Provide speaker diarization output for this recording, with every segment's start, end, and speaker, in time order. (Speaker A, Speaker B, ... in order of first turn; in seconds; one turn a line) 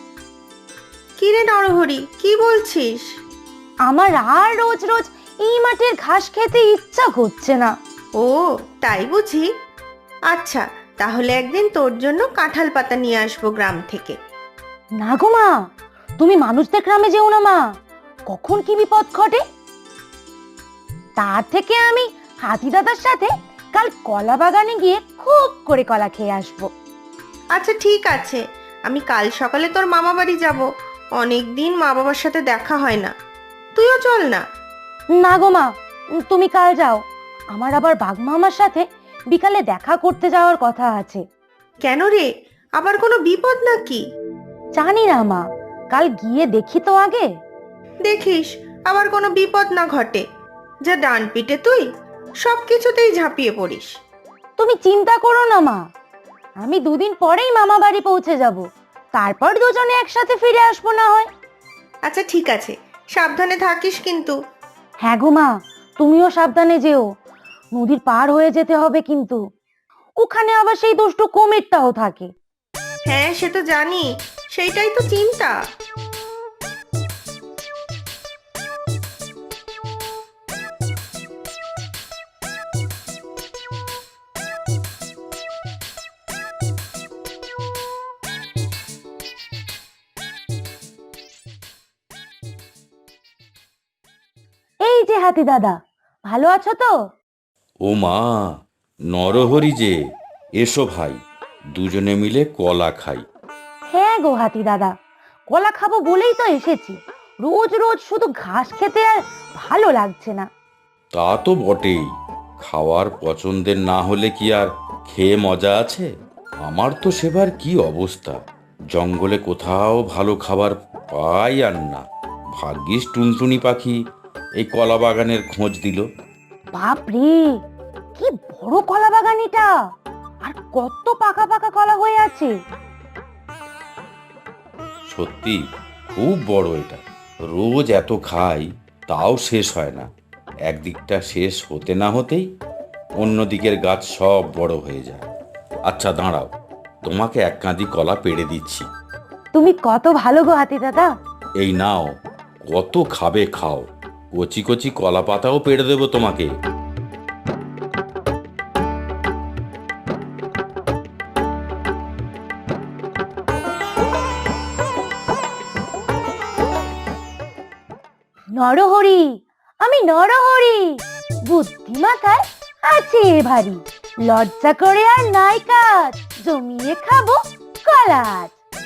Speaker A: 1.2-3.0
Speaker B: 3.9-7.7
Speaker A: 8.2-9.4
Speaker A: 10.3-14.2
Speaker B: 15.0-15.6
Speaker B: 16.2-17.6
Speaker B: 18.3-19.4
Speaker B: 21.2-26.7
Speaker A: 27.5-30.6
Speaker A: 31.2-33.1
Speaker A: 33.8-34.4
Speaker B: 35.2-37.0
Speaker B: 37.5-41.2
Speaker A: 41.8-44.0
Speaker B: 44.8-47.2
Speaker A: 48.0-50.2
Speaker A: 50.9-51.9
Speaker A: 52.4-54.0
Speaker B: 54.6-55.8
Speaker B: 56.6-58.6
Speaker B: 59.2-61.3
Speaker A: 62.0-64.4
Speaker B: 65.0-67.0
Speaker B: 67.7-69.4
Speaker B: 70.2-72.3
Speaker A: 73.1-75.5
Speaker B: 94.8-95.8
Speaker B: 96.3-96.9
Speaker C: 97.8-98.5
Speaker C: 99.1-100.0
Speaker C: 100.6-101.2
Speaker C: 101.7-103.2
Speaker B: 103.9-104.9
Speaker B: 105.5-110.5
Speaker C: 111.1-116.1
Speaker C: 116.6-118.4
Speaker C: 118.9-122.0
Speaker C: 122.5-124.0
Speaker C: 124.6-126.0
Speaker B: 126.7-127.5
Speaker B: 128.2-129.7
Speaker B: 130.4-132.5
Speaker C: 135.1-135.6
Speaker C: 136.1-140.1
Speaker C: 140.7-142.5
Speaker C: 143.2-145.3
Speaker C: 145.9-146.5
Speaker C: 147.1-148.9
Speaker B: 149.5-151.1
Speaker C: 151.6-152.1
Speaker C: 152.7-156.5
Speaker B: 168.6-178.5